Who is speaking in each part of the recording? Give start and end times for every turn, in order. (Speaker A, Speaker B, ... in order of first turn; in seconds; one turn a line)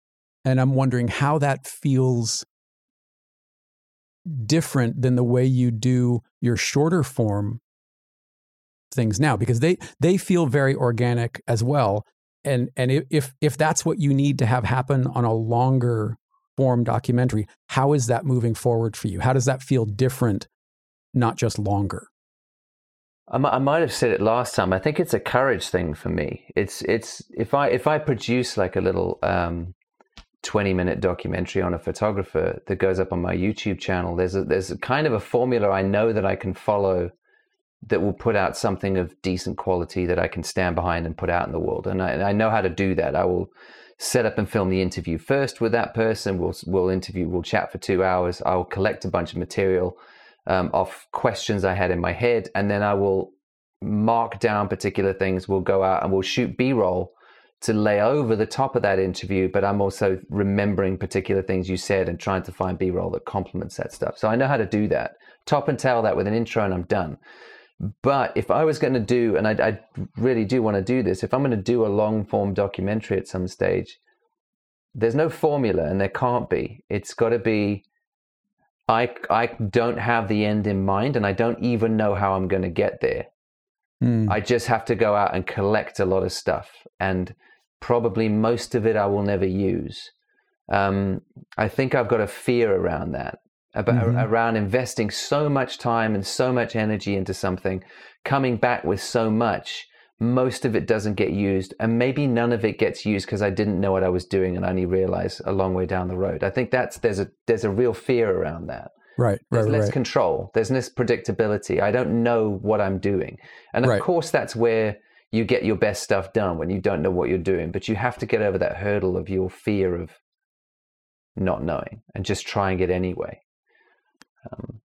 Speaker A: 0.4-2.5
Speaker A: 4.3-7.6
Speaker A: 8.9-20.5
Speaker A: 21.1-22.1
Speaker B: 23.3-29.7
Speaker B: 30.4-37.1
Speaker B: 37.9-67.2
Speaker B: 67.8-74.0
Speaker B: 74.9-77.8
Speaker B: 78.9-83.3
Speaker A: 84.0-84.3
Speaker B: 84.3-90.1
Speaker B: 90.7-108.9
Speaker A: 93.9-94.3
Speaker A: 109.2-109.9
Speaker B: 109.5-120.2
Speaker B: 121.3-123.4
Speaker B: 124.4-124.8